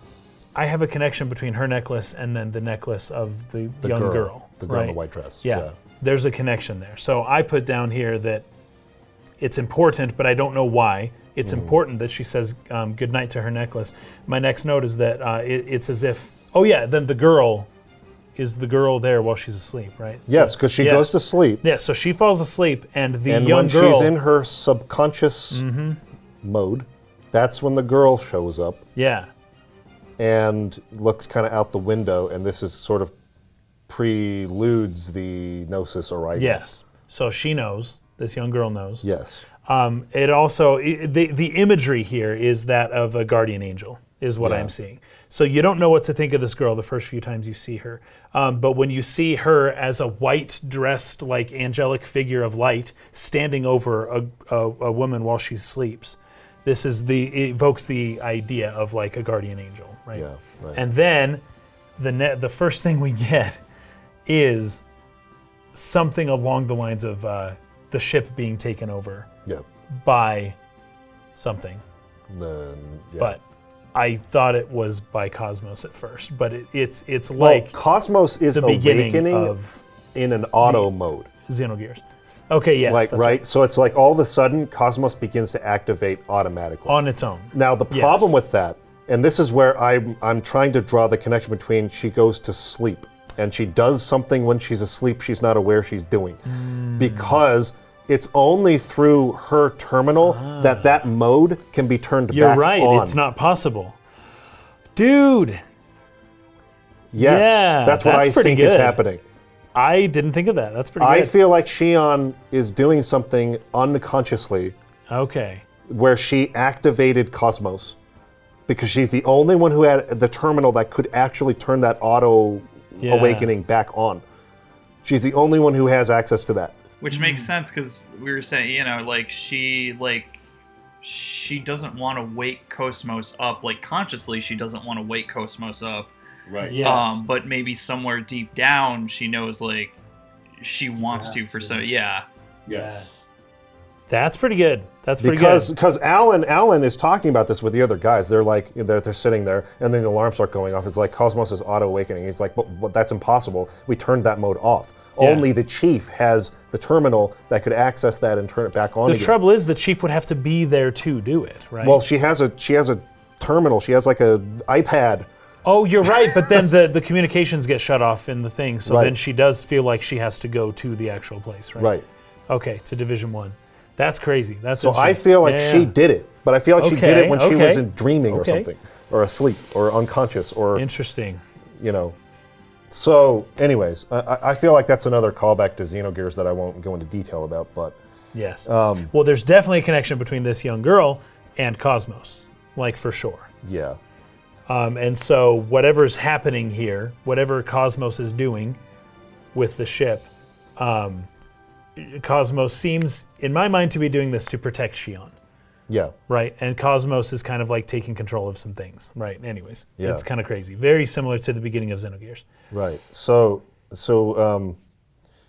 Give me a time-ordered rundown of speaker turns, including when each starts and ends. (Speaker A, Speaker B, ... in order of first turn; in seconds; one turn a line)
Speaker A: 0.6-8.5
Speaker B: 3.8-5.7
Speaker A: 9.4-17.7
Speaker B: 11.4-11.8
Speaker A: 18.4-24.1
Speaker B: 20.3-21.6
Speaker B: 23.3-25.6
Speaker A: 25.5-26.0
Speaker B: 26.4-28.8
Speaker A: 29.0-29.3
Speaker B: 30.2-33.1
Speaker B: 33.9-36.6
Speaker A: 36.4-39.0
Speaker B: 39.0-39.4
Speaker A: 39.6-61.4
Speaker B: 44.4-44.7
Speaker B: 60.1-60.8
Speaker A: 62.0-63.6
Speaker A: 64.3-64.8
Speaker A: 65.7-69.3
Speaker A: 69.9-70.6
Speaker A: 71.4-71.8
Speaker B: 72.3-73.4
Speaker A: 73.9-77.7
Speaker B: 77.4-79.5
Speaker A: 78.5-79.8
Speaker B: 80.2-81.3
Speaker A: 80.6-80.9
Speaker A: 81.5-83.4
Speaker B: 82.8-87.0
Speaker A: 86.9-88.4
Speaker B: 87.5-96.4
Speaker A: 96.5-97.4
Speaker B: 97.0-103.2
Speaker A: 100.2-101.0
Speaker A: 102.3-104.0
Speaker A: 105.0-105.6
Speaker B: 107.1-109.2
Speaker A: 107.2-109.0
Speaker A: 109.8-111.3
Speaker B: 111.0-114.8
Speaker A: 115.1-115.6
Speaker B: 115.9-118.0
Speaker B: 118.7-124.2
Speaker A: 123.0-123.5
Speaker B: 125.0-126.8
Speaker C: 127.0-130.4
Speaker A: 127.1-127.5
Speaker C: 131.0-136.1
Speaker B: 136.5-136.8
Speaker A: 136.6-137.2
Speaker C: 136.8-140.0
Speaker C: 140.6-142.2
Speaker B: 141.1-141.7
Speaker A: 141.1-141.8
Speaker B: 142.7-143.1
Speaker A: 142.7-143.2
Speaker A: 144.1-145.7
Speaker B: 145.2-159.4
Speaker A: 155.2-155.5
Speaker A: 159.1-162.0
Speaker B: 161.8-165.3
Speaker A: 165.7-171.9
Speaker B: 166.1-166.7
Speaker B: 168.9-169.2
Speaker B: 171.8-172.1
Speaker A: 172.5-175.9
Speaker B: 174.7-180.8
Speaker A: 176.8-178.7
Speaker A: 180.8-181.4
Speaker B: 181.8-182.2
Speaker B: 182.9-188.0
Speaker A: 188.3-193.5
Speaker B: 188.7-189.1
Speaker B: 193.6-194.0
Speaker A: 194.7-198.8
Speaker A: 199.5-201.3
Speaker A: 202.0-205.3
Speaker B: 205.9-206.1
Speaker A: 206.3-212.5
Speaker B: 210.0-210.2
Speaker B: 212.7-214.8